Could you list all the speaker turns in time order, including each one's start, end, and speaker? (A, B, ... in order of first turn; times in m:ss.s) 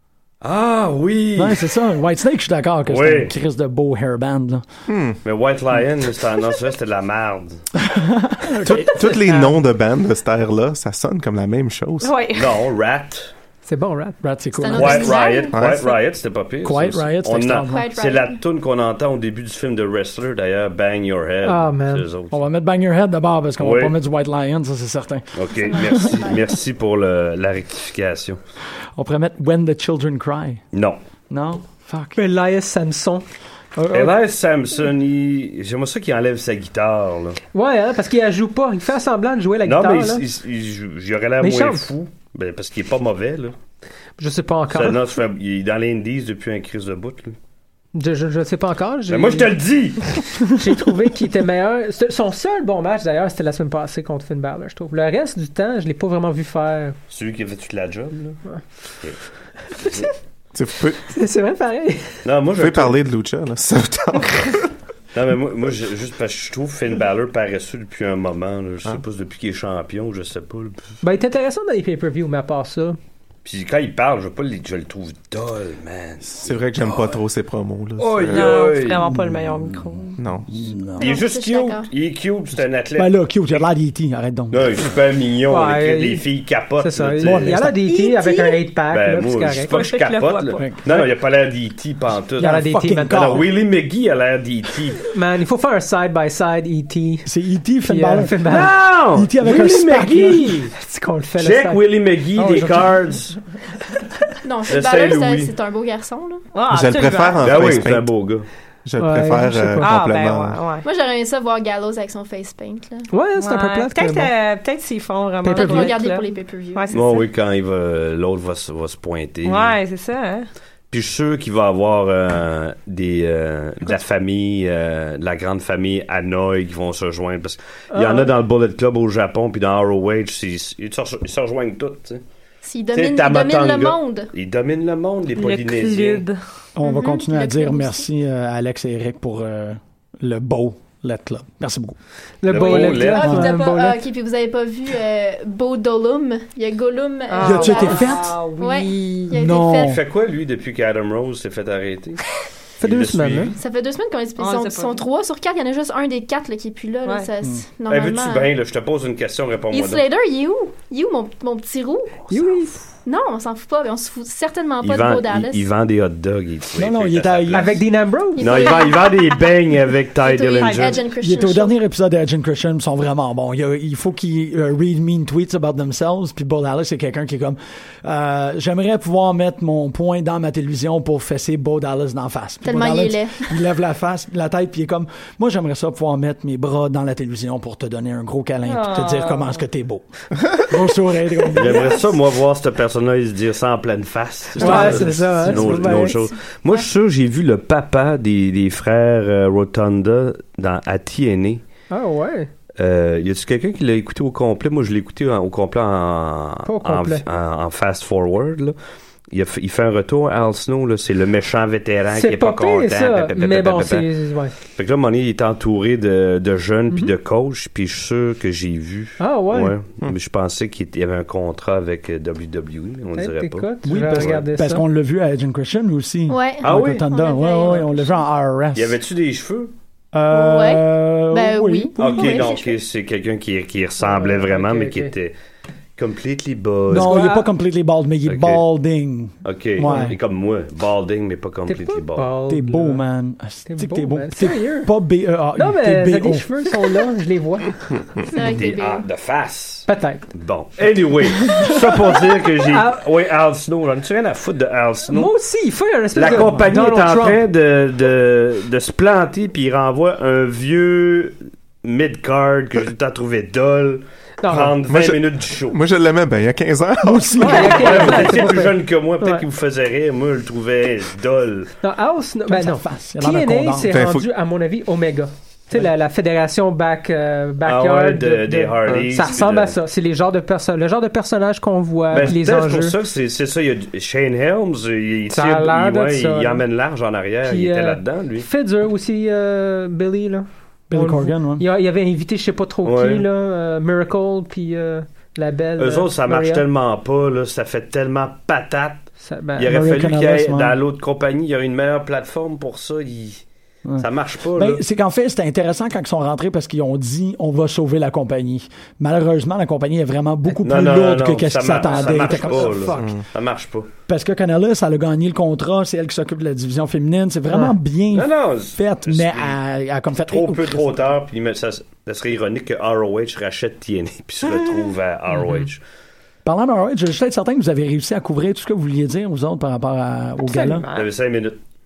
0:00.4-0:01.6 A
0:01.4-0:04.6 B
0:02.8-0:03.3 A
0:04.9-0:05.2 C
0:05.2-0:07.6 A
0:07.8-0:09.2 B
0:08.6-0:12.1 C
0:12.0-0:12.6 D
0:12.3-0:13.3 A
0:13.6-0:14.2 E
0:14.2-0:15.2 B
0:14.6-0:15.6 F
0:14.7-0:22.4 A
0:15.5-0:16.0 C
0:16.6-0:17.9 B
0:17.6-0:18.4 F
0:21.4-0:22.0 E
0:22.3-0:26.2 B
0:23.6-0:23.9 A
0:25.3-0:28.4 A
0:25.6-0:26.4 F
0:29.0-0:30.6 B
0:30.7-0:31.0 A
0:31.3-0:32.2 B
0:32.2-0:33.2 E
0:33.7-0:34.2 B
0:33.9-0:37.4 A
0:37.5-0:40.2 E
0:39.6-0:43.5 A
0:41.4-0:41.9 E
0:44.2-0:45.0 E
0:44.7-0:47.4 A
0:47.9-0:57.0 E
0:49.1-0:50.2 A
0:57.1-0:58.4 A
0:59.7-1:00.1 A
0:59.8-1:00.1 E
1:00.5-1:01.0 C
1:01.0-1:02.2 E
1:02.2-1:03.0 A
1:02.6-1:04.7 C
1:05.1-1:10.9 A
1:11.0-1:13.0 E
1:13.4-1:17.0 A
1:16.3-1:18.6 C
1:18.0-1:19.1 A
1:18.3-1:20.1 D
1:18.9-1:21.2 B
1:20.2-1:20.6 C
1:21.0-1:23.1 A
1:21.0-1:21.9 F
1:23.0-1:24.7 B
1:24.5-1:27.6 A
1:25.4-1:29.7 E
1:27.2-1:28.3 B
1:28.9-1:35.0 A
1:29.6-1:30.8 D
1:30.6-1:31.1 B
1:32.4-1:33.5 B
1:32.4-1:33.5 E
1:35.1-1:37.3 E
1:37.2-1:40.5 B
1:37.8-1:38.8 E
1:38.4-1:40.7 A
1:40.3-1:43.0 E
1:41.4-1:43.3 A
1:44.4-1:46.4 F
1:44.7-1:45.5 A
1:46.5-1:47.8 D
1:46.7-1:50.6 C
1:47.4-1:48.5 A
1:49.0-1:50.0 E
1:49.8-1:50.8 D
1:50.8-1:53.1 F
1:53.1-1:54.3 E
1:53.4-1:57.2 D
1:55.4-1:56.0 E
1:55.5-1:57.3 F
1:56.9-1:59.7 A
1:59.4-2:00.5 D
2:00.9-2:12.2 A
2:07.9-2:08.3 E
2:12.6-2:14.3 F
2:12.9-2:16.2 A
2:15.3-2:16.4 D
2:16.8-2:22.0 B
2:16.8-2:18.0 F
2:22.4-2:24.0 E
2:22.4-2:23.5 A
2:22.5-2:23.5 B
2:23.0-2:30.0 F
2:27.3-2:29.2 D
2:27.4-2:28.4 B
2:29.3-2:30.0 B
2:29.8-2:32.2 A
2:32.8-2:33.6 E
2:32.8-2:33.6 A
2:33.6-2:38.5 F
2:34.4-2:35.0 D
2:37.9-2:40.0 A
2:39.7-2:42.4 F
2:42.3-2:42.8 E
2:43.0-2:45.6 F
2:44.8-2:47.8 A
2:46.8-2:47.8 B
2:47.5-2:48.8 E
2:48.4-2:49.5 F
2:48.4-2:51.0 A
2:50.2-2:51.8 F
2:50.5-2:51.0 D
2:51.2-3:12.0 B
3:02.6-3:03.6 F
3:08.6-3:09.6 D
3:11.5-3:21.6 A
3:11.6-3:12.1 F
3:14.6-3:16.3 E
3:14.6-3:15.9 B
3:21.9-3:22.5 E
3:22.8-3:28.7 A
3:26.6-3:27.2 E
3:29.3-3:33.2 A
3:32.1-3:34.6 E
3:33.2-3:34.1 C
3:34.7-3:44.4 A
3:39.2-3:39.8 E
3:43.2-3:44.8 E
3:43.8-3:49.0 B
3:46.3-3:48.1 F
3:46.6-3:47.0 A
3:48.7-3:49.7 A
3:50.1-3:52.6 B
3:50.3-3:52.8 F
3:52.0-3:55.3 A
3:54.0-3:55.1 E
3:56.0-3:57.3 A
3:56.9-4:00.2 B
3:57.0-3:57.5 E
3:58.2-3:58.6 A
3:59.4-4:02.3 A
4:01.7-4:03.0 E
4:02.5-4:06.5 B
4:03.6-4:04.9 E
4:05.5-4:08.0 E
4:08.3-4:09.0 F
4:08.5-4:15.3 A
4:09.9-4:10.4 E
4:11.3-4:13.0 E
4:15.1-4:17.4 E
4:16.1-4:25.8 A
4:24.4-4:24.8 E
4:24.9-4:27.9 C
4:27.0-4:28.5 B
4:27.4-4:29.4 E
4:27.5-4:31.7 A
4:31.8-4:43.0 E
4:32.5-4:34.0 B
4:33.9-4:34.3 C
4:37.6-4:39.8 A
4:42.1-4:48.5 A
4:45.3-4:46.6 E
4:47.4-4:56.6 E
4:50.9-4:51.6 B
4:52.8-4:53.2 A
4:55.8-5:03.4 A
4:59.2-4:59.7 E
4:59.6-5:00.8 B
5:03.8-5:12.9 B
5:04.0-5:04.8 A
5:10.6-5:13.9 A
5:11.8-5:13.2 E
5:13.0-5:13.2 C
5:14.1-5:21.0 B
5:18.1-5:19.6 A
5:20.2-5:25.8 A
5:25.3-5:25.7 E
5:26.4-5:30.8 B
5:30.6-5:31.1 D
5:30.9-5:31.6 A